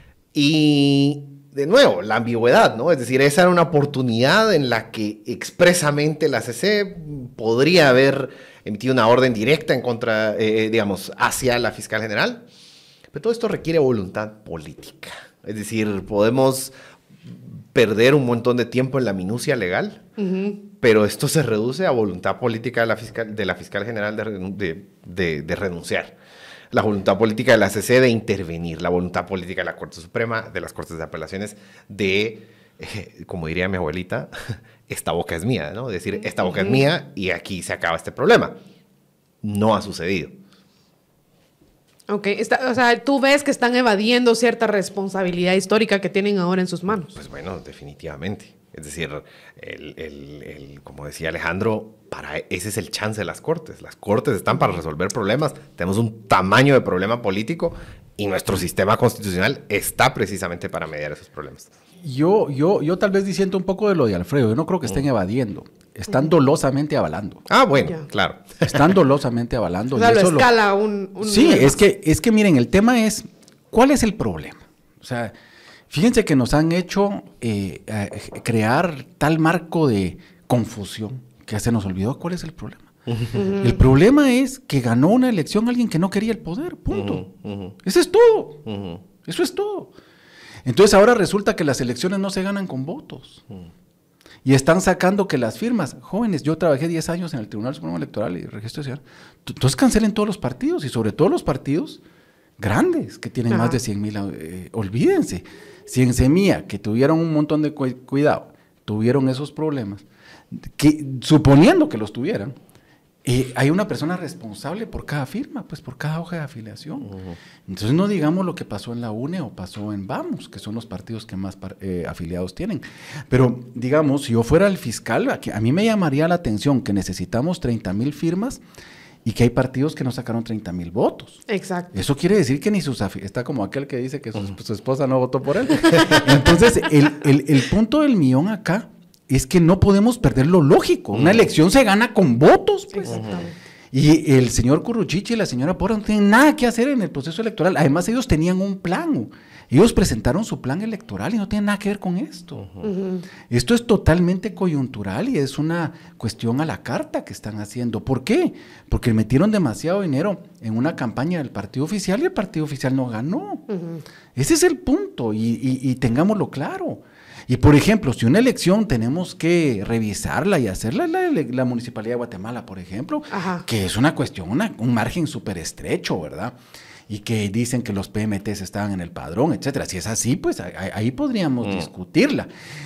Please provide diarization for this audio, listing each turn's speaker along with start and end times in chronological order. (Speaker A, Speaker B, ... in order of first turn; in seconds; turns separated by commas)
Speaker A: 0.3-12.4, Speaker A: 13.1-16.7, Speaker A: 17.7-20.0, Speaker B: 20.2-20.6, Speaker A: 20.8-26.1, Speaker A: 26.7-38.5, Speaker B: 36.2-36.8, Speaker A: 39.4-40.3, Speaker B: 42.1-47.1, Speaker A: 47.1-61.7, Speaker C: 62.0-67.5, Speaker A: 67.5-68.9, Speaker C: 68.6-70.5, Speaker B: 69.9-71.7, Speaker C: 71.2-75.3, Speaker C: 75.9-87.3, Speaker A: 83.1-83.4, Speaker B: 83.3-83.6, Speaker A: 86.9-87.7, Speaker C: 87.8-88.6, Speaker A: 88.7-89.0, Speaker C: 89.2-89.9, Speaker C: 90.6-93.4, Speaker C: 94.4-102.0, Speaker C: 102.6-112.5, Speaker B: 103.5-103.8, Speaker C: 113.2-117.1, Speaker A: 117.1-117.4, Speaker C: 117.7-128.6, Speaker C: 129.2-143.2, Speaker B: 131.5-131.9, Speaker B: 135.8-136.2, Speaker A: 141.1-141.4, Speaker B: 142.9-143.5, Speaker A: 143.1-143.4, Speaker C: 143.9-152.7, Speaker B: 152.8-153.2, Speaker C: 153.5-163.7, Speaker B: 163.7-164.0, Speaker C: 164.3-176.6, Speaker B: 173.3-173.6, Speaker C: 177.1-182.5